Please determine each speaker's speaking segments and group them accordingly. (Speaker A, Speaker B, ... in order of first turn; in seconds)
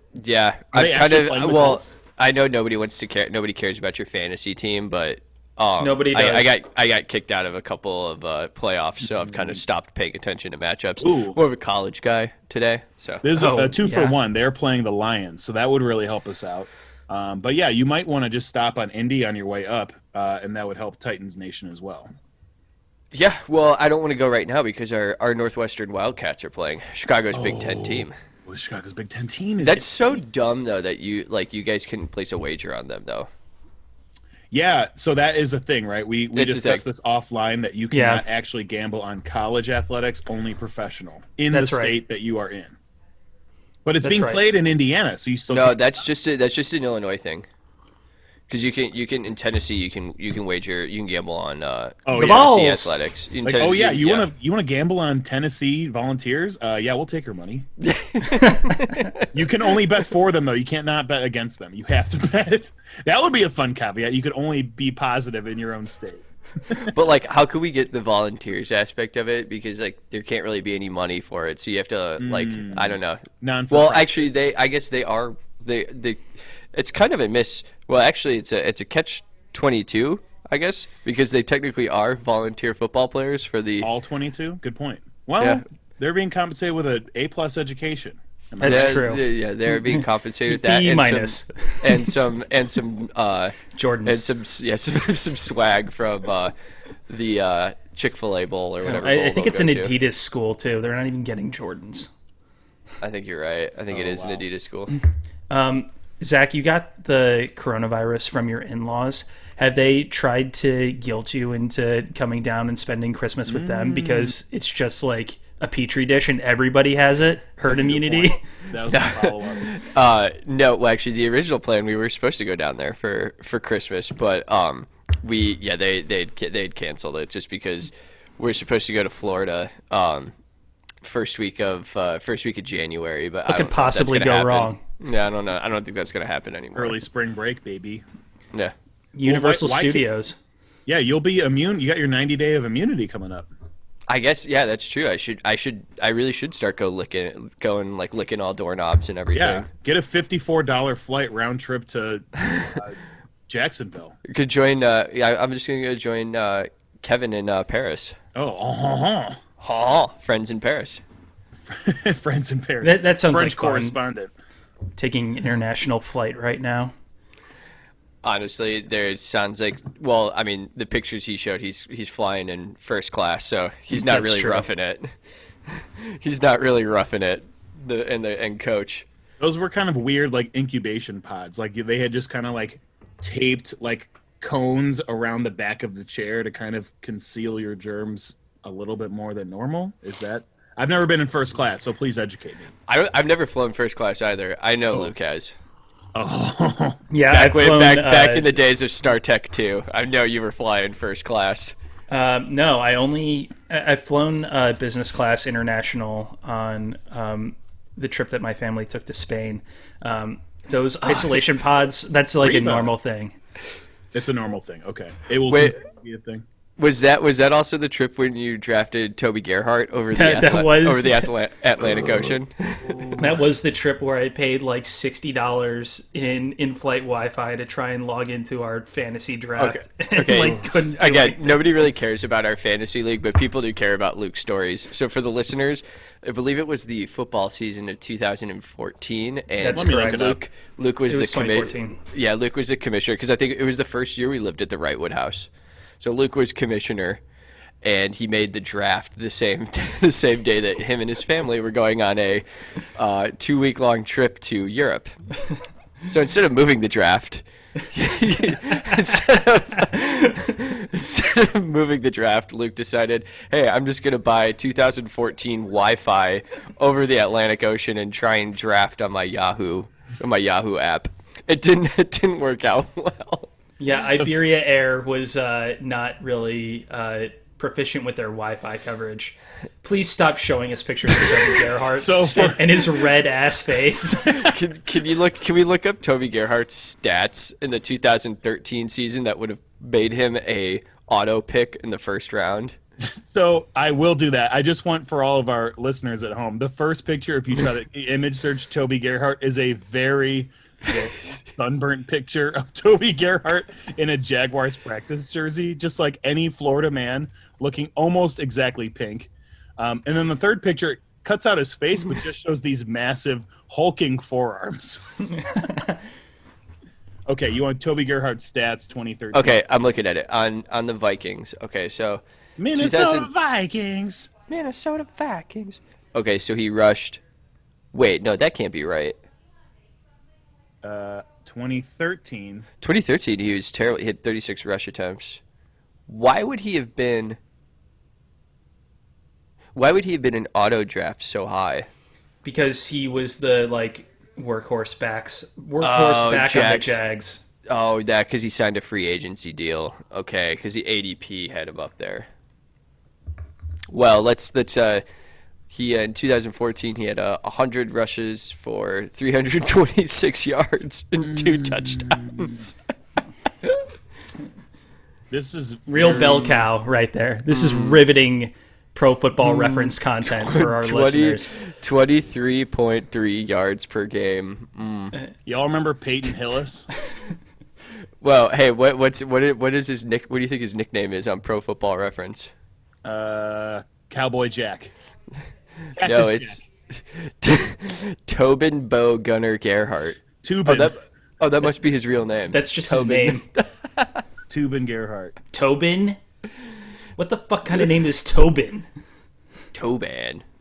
Speaker A: 0.1-13.2, 23.1-28.1, 29.6-33.3, 36.3-36.8, 45.5-47.5, 48.5-54.3, 57.8-59.3, 66.8-83.9, 88.6-96.5, 97.1-99.9, 103.0-104.9, 118.9-130.3, 131.0-137.0, 144.1-149.7, 154.2-158.1, 159.6-161.0, 168.2-175.1, 175.7-179.1, 192.9-195.5, 197.3-201.7, 215.5-215.8, 216.8-223.2, 229.6-245.5, 246.0-247.2, 247.8-252.4, 252.9-255.1, 256.1-273.5, 284.3-292.8, 319.3-322.2, 322.7-323.3, 324.5-327.2, 327.9-329.2, 332.8-335.4, 336.1-337.4, 339.7-341.9, 345.8-347.0, 347.6-352.3, 353.9-355.0, 355.7-362.8, 367.5-368.0, 369.4-375.1, 378.2-382.5, 386.0-394.2, 399.7-400.4
Speaker B: 0.7-1.9, 9.1-9.6, 11.0-11.4, 13.2-22.1, 27.3-29.9, 34.5-42.8, 43.8-45.8, 52.0-52.5, 53.4-57.7, 59.3-66.9, 72.2-74.2, 83.8-89.0, 103.9-104.4, 113.5-114.3, 117.6-119.7, 136.7-138.0, 139.2-140.1, 140.8-143.5, 149.3-153.0, 153.5-154.2, 158.3-159.4, 161.7-164.3, 179.4-192.7, 196.1-197.0, 212.4-212.9, 214.1-216.4, 239.7-240.4, 282.0-282.8, 293.0-315.0, 317.3-319.6, 322.6-324.3, 330.8-332.7, 361.2-362.6, 365.3-366.6, 375.4-376.9, 383.0-384.9, 386.0-386.6, 390.4-391.0, 394.5-395.4
Speaker C: 5.8-6.6, 13.3-14.2, 37.9-38.2, 41.5-42.0, 44.0-44.4, 52.1-52.9, 88.6-89.2, 89.8-92.1, 93.7-94.2, 98.8-102.1, 105.5-118.4, 133.4-134.8, 139.1-140.4, 162.8-164.0, 165.0-166.9, 173.9-174.7, 197.1-198.5, 202.1-213.3, 220.1-221.3, 223.1-231.6, 239.6-240.3, 241.1-242.0, 273.8-284.6, 315.6-315.9, 342.4-347.4, 365.9-371.5, 392.5-393.4, 395.5-396.2, 397.2-398.9